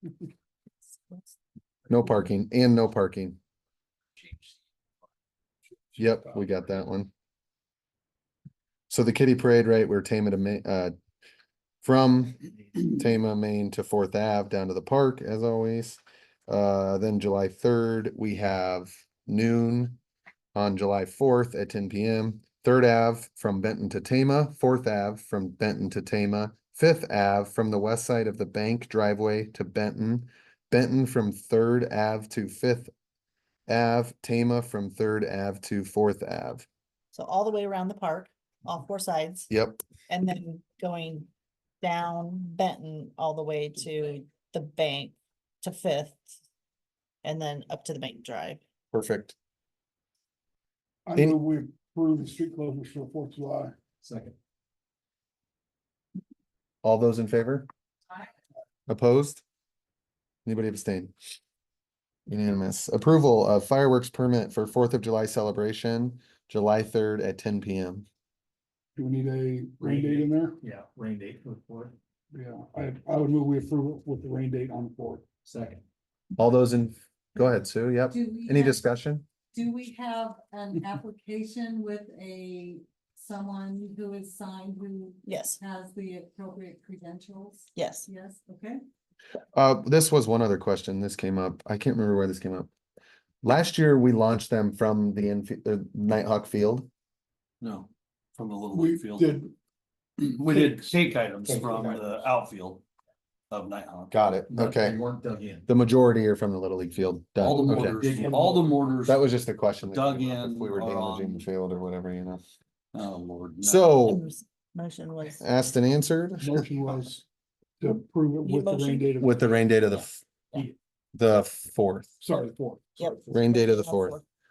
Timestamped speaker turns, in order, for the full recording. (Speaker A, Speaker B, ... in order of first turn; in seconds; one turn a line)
Speaker A: 1.9-3.4
Speaker A: 6.0-7.1
Speaker A: 8.9-10.9
Speaker A: 11.8-20.0
Speaker A: 20.5-32.9
Speaker A: 33.7-36.6
Speaker B: 37.1-39.5
Speaker A: 39.5-39.8
Speaker B: 40.1-41.3
Speaker B: 41.8-46.2
Speaker B: 47.2-48.6
Speaker A: 48.9-49.4
Speaker C: 51.0-53.8
Speaker D: 54.0-54.3
Speaker A: 56.8-57.7
Speaker A: 58.9-59.4
Speaker A: 60.4-61.1
Speaker A: 62.3-68.0
Speaker C: 69.0-70.6
Speaker D: 69.8-72.0
Speaker C: 72.3-75.2
Speaker D: 75.4-75.8
Speaker A: 76.4-79.2
Speaker E: 78.1-79.0
Speaker E: 79.5-88.8
Speaker B: 85.2-85.6
Speaker B: 87.7-88.1
Speaker A: 89.5-92.7
Speaker A: 93.4-96.9
Speaker F: 97.6-99.3
Speaker C: 98.7-99.5
Speaker C: 100.3-101.0
Speaker F: 100.4-102.8
Speaker C: 101.5-102.1
Speaker F: 103.5-104.1
Speaker A: 104.1-105.0
Speaker D: 104.5-105.7
Speaker A: 105.7-108.0
Speaker F: 107.4-109.2
Speaker C: 107.4-108.8
Speaker A: 109.0-112.4
Speaker F: 109.9-111.5
Speaker F: 112.9-113.9
Speaker A: 113.6-114.2
Speaker B: 114.0-115.4
Speaker A: 115.4-116.6
Speaker C: 116.4-117.2
Speaker C: 117.8-119.6
Speaker B: 118.4-119.1
Speaker A: 119.2-120.2
Speaker A: 121.1-122.2
Speaker C: 122.2-123.2
Speaker B: 123.0-124.2
Speaker A: 123.3-124.2